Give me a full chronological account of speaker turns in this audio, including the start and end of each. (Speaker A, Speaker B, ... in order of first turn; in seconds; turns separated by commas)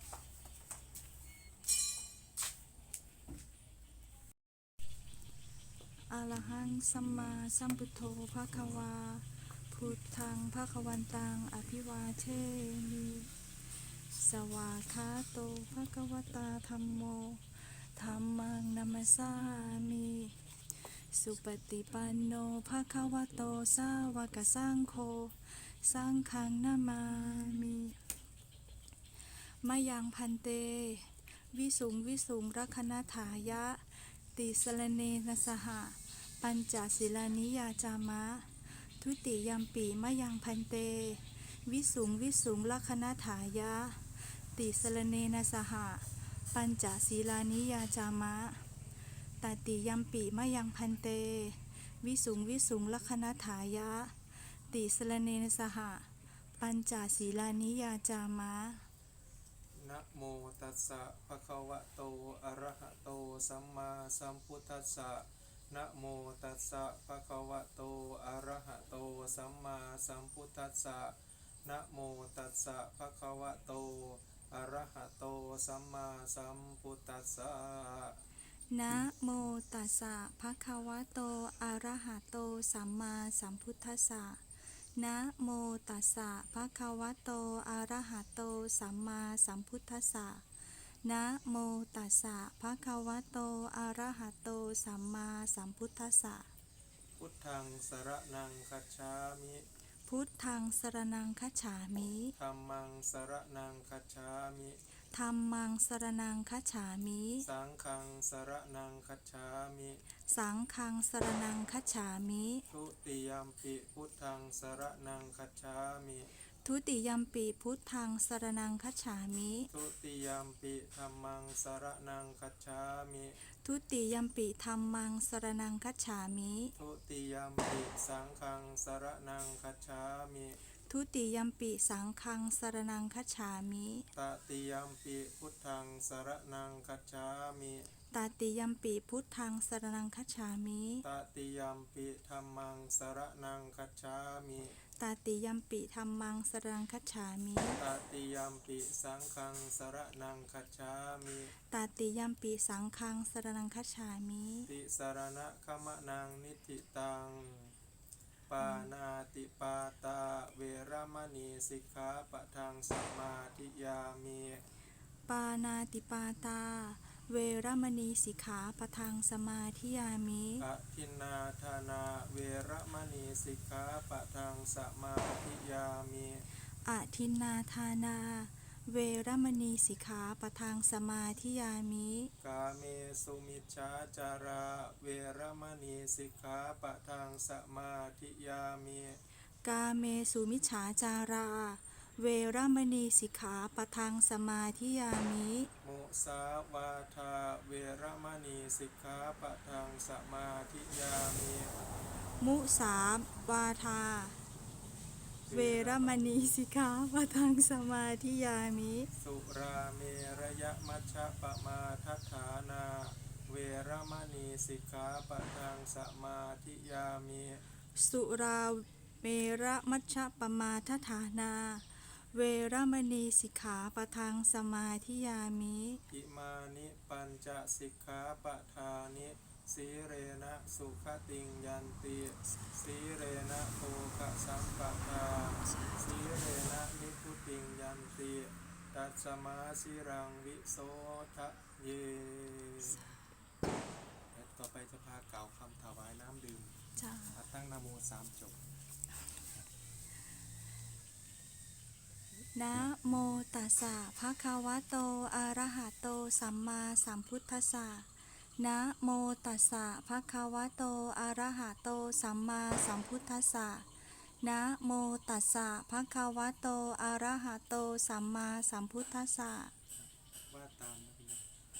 Speaker A: 6.1-13.3, Speaker A: 13.9-27.9, Speaker A: 29.6-48.7, Speaker A: 49.4-58.9, Speaker B: 59.8-71.1, Speaker B: 71.7-78.2, Speaker A: 78.7-84.4, Speaker A: 85.0-90.4, Speaker A: 91.0-96.5, Speaker B: 97.2-99.6, Speaker A: 100.0-102.3, Speaker B: 102.4-104.8, Speaker A: 105.1-107.5, Speaker B: 107.4-110.0, Speaker A: 110.3-112.6, Speaker B: 112.7-116.3, Speaker A: 116.6-119.7, Speaker B: 119.7-123.4, Speaker A: 123.6-126.7, Speaker B: 126.8-130.6, Speaker A: 130.9-134.1, Speaker B: 134.1-137.9, Speaker A: 138.1-141.0, Speaker B: 141.0-144.8, Speaker A: 145.0-147.8, Speaker B: 147.8-151.5, Speaker A: 151.7-154.7, Speaker B: 154.7-157.7, Speaker B: 158.5-164.6, Speaker A: 158.6-158.9, Speaker A: 165.3-170.7, Speaker B: 170.6-176.4, Speaker A: 176.8-182.3, Speaker B: 182.4-189.2, Speaker A: 189.6-195.7, Speaker B: 195.8-201.8, Speaker A: 202.4-204.4, Speaker B: 205.5-206.6, Speaker A: 205.5-209.1, Speaker B: 209.1-217.6, Speaker A: 217.9-226.0, Speaker B: 226.1-243.1, Speaker A: 235.6-236.3, Speaker A: 242.8-243.2, Speaker B: 244.3-246.7, Speaker A: 247.0-247.4, Speaker B: 247.3-248.6, Speaker A: 252.5-263.9, Speaker A: 264.4-269.7, Speaker B: 270.0-271.4